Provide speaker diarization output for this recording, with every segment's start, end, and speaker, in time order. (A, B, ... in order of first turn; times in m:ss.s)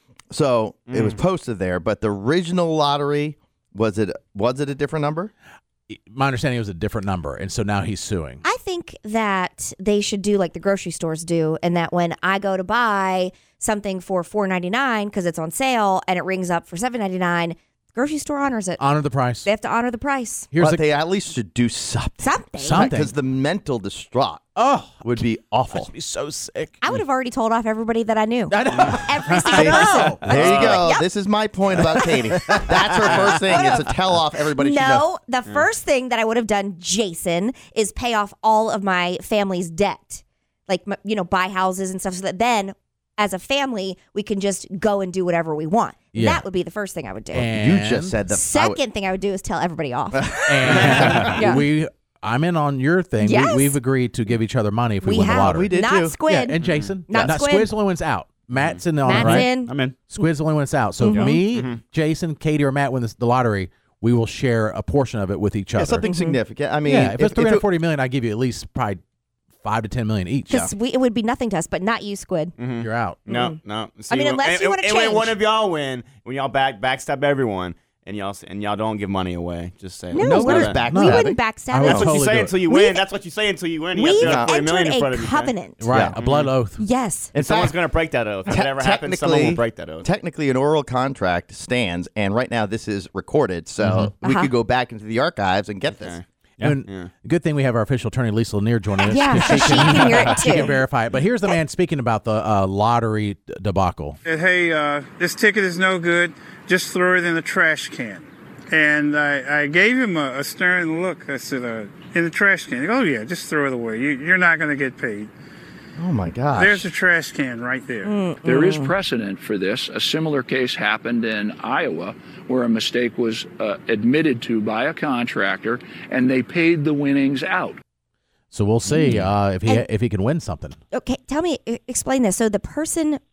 0:00.3-0:05.3 A
0:00.9-0:01.2 B
0:05.9-0:08.4 C
0:08.4-0:18.8 D
0:18.8-0:19.5 C
0:19.4-0:20.5 D
0:20.5-0:20.8 C
0:20.6-0:24.4 A
0:22.2-0:22.9 D
0:22.6-0:23.1 C
0:24.6-0:25.0 C
0:25.0-0:25.9 A
0:25.7-0:27.0 C
0:26.8-0:31.1 D
0:28.5-0:30.7 C
0:29.5-0:35.1 A
0:32.5-0:33.3 C
0:33.5-0:33.9 D
0:34.5-0:47.5 D
0:46.1-0:46.4 C
0:47.3-0:48.1 C
0:47.3-0:48.8 A
0:48.3-0:50.7 D
0:50.1-0:51.3 A
0:50.5-0:55.7 C
0:50.7-0:51.4 B
0:51.3-0:51.6 D
0:53.2-0:53.8 D
0:55.0-0:57.7 D
0:55.3-0:56.2 A
0:56.3-0:59.5 C
0:56.6-0:57.0 B
0:58.5-1:00.0 B
0:59.0-0:59.8 D
1:00.1-1:06.0 C
1:01.0-1:01.4 D
1:01.0-1:01.8 B
1:05.8-1:07.7 A
1:06.1-1:06.4 D
1:06.8-1:09.0 C
1:09.6-1:10.6 C
1:10.5-1:12.5 D
1:12.6-1:20.9 B
1:12.8-1:13.2 C
1:13.3-1:13.6 D
1:14.1-1:15.4 D
1:20.1-1:22.1 D
1:20.2-1:21.4 A
1:20.9-1:22.5 C
1:21.8-1:26.5 B
1:22.7-1:23.0 D
1:24.0-1:25.8 D
1:24.1-1:24.5 A
1:25.8-1:26.8 C
1:25.9-1:26.2 A
1:26.8-1:27.3 D
1:27.3-1:27.8 A
1:27.4-1:30.1 B
1:28.5-1:36.2 A
1:34.2-1:34.5 D
1:35.9-1:37.1 B
1:36.6-1:44.2 C
1:39.1-1:40.8 D
1:44.3-1:55.3 E
1:56.0-1:56.8 A
1:56.6-1:58.1 E
1:58.0-1:58.9 D
1:58.4-2:07.8 F
2:08.5-2:10.8 C
2:08.9-2:09.9 D
2:10.9-2:13.2 D